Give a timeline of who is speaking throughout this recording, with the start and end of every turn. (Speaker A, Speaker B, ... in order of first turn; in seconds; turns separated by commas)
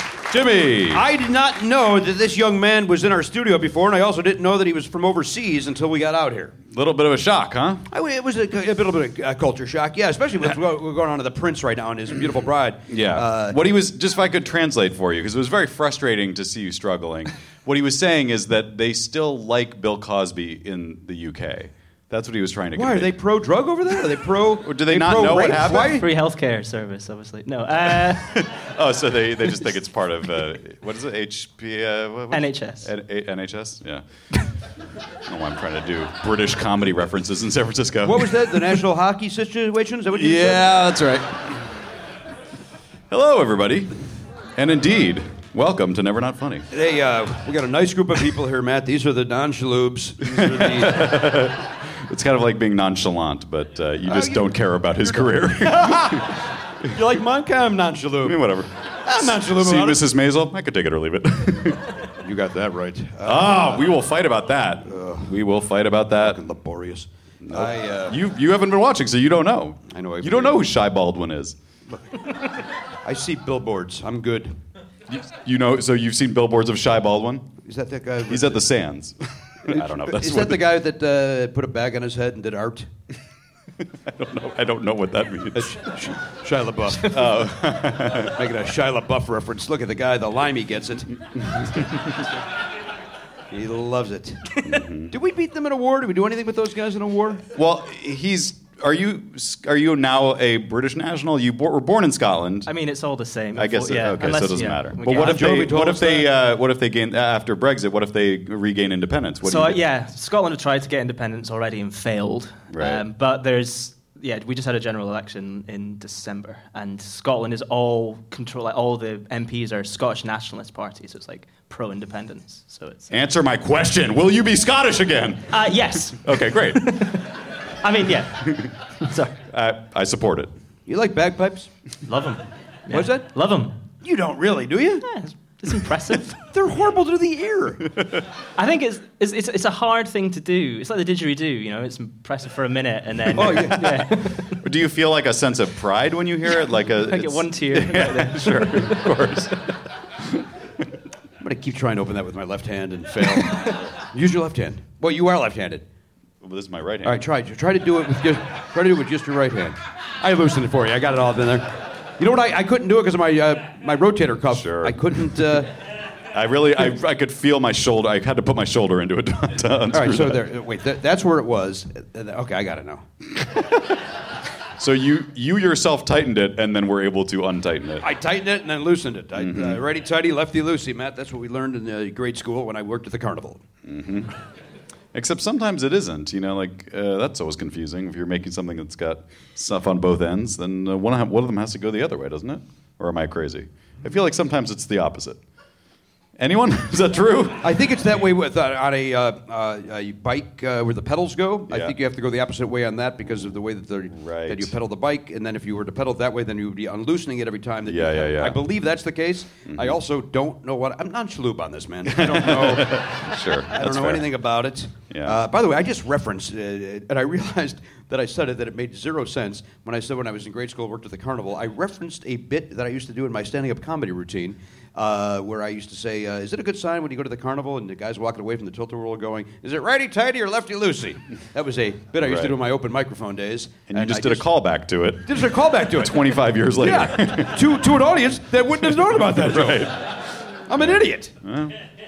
Speaker A: 0.3-1.0, Speaker B: 0.9-6.5, Speaker A: 6.7-7.8, Speaker B: 7.9-13.6, Speaker A: 12.9-23.1, Speaker B: 22.7-26.0, Speaker A: 24.6-26.0, Speaker C: 25.7-28.4, Speaker A: 28.1-34.0, Speaker C: 32.3-32.9, Speaker A: 35.2-38.8, Speaker B: 38.0-41.0, Speaker A: 40.1-41.5, Speaker A: 43.1-43.9, Speaker A: 44.5-46.7, Speaker B: 46.7-51.1, Speaker A: 50.3-56.4, Speaker B: 54.1-58.4, Speaker A: 58.2-61.9, Speaker B: 59.0-60.0, Speaker B: 62.2-63.9, Speaker A: 63.2-66.4, Speaker B: 64.8-65.3, Speaker B: 66.2-68.2, Speaker A: 67.4-71.6, Speaker B: 69.9-70.6, Speaker B: 71.9-72.5, Speaker B: 73.0-74.5, Speaker A: 75.1-77.5, Speaker B: 77.6-78.7, Speaker A: 78.3-80.8, Speaker B: 79.6-82.9, Speaker A: 83.8-86.1, Speaker B: 85.5-87.2, Speaker A: 86.9-88.5, Speaker B: 88.0-91.1, Speaker A: 91.4-92.1, Speaker B: 93.5-94.5, Speaker A: 94.6-95.1, Speaker B: 95.1-97.4, Speaker A: 97.5-102.7, Speaker C: 102.7-105.6, Speaker A: 103.5-109.8, Speaker B: 105.1-106.3, Speaker C: 109.4-123.1, Speaker A: 112.7-113.0, Speaker A: 123.1-127.1, Speaker C: 125.5-129.3, Speaker A: 128.4-128.7, Speaker A: 129.5-130.5, Speaker B: 130.9-131.7, Speaker C: 132.1-133.8, Speaker B: 132.9-133.3, Speaker B: 134.0-135.0, Speaker C: 135.0-136.4, Speaker B: 136.5-137.9, Speaker C: 138.6-144.6, Speaker B: 143.3-143.9, Speaker A: 143.4-149.6, Speaker C: 146.8-149.7, Speaker B: 151.4-155.8, Speaker A: 156.4-157.2, Speaker B: 157.0-161.7, Speaker B: 162.2-165.7, Speaker A: 164.5-165.6, Speaker A: 166.3-170.4, Speaker B: 169.9-173.0, Speaker A: 173.4-174.0, Speaker A: 174.8-178.1, Speaker B: 178.0-183.6, Speaker A: 179.3-179.8, Speaker A: 183.8-184.3, Speaker A: 185.1-195.4, Speaker A: 196.4-197.7, Speaker B: 197.6-234.5, Speaker A: 201.7-201.9, Speaker A: 204.1-204.7, Speaker A: 207.9-208.6, Speaker A: 209.7-210.0, Speaker A: 212.1-214.3, Speaker A: 215.1-215.4, Speaker A: 232.2-232.6, Speaker A: 233.9-237.9, Speaker B: 235.2-240.1, Speaker A: 238.8-240.1, Speaker B: 240.7-241.3, Speaker A: 240.7-241.8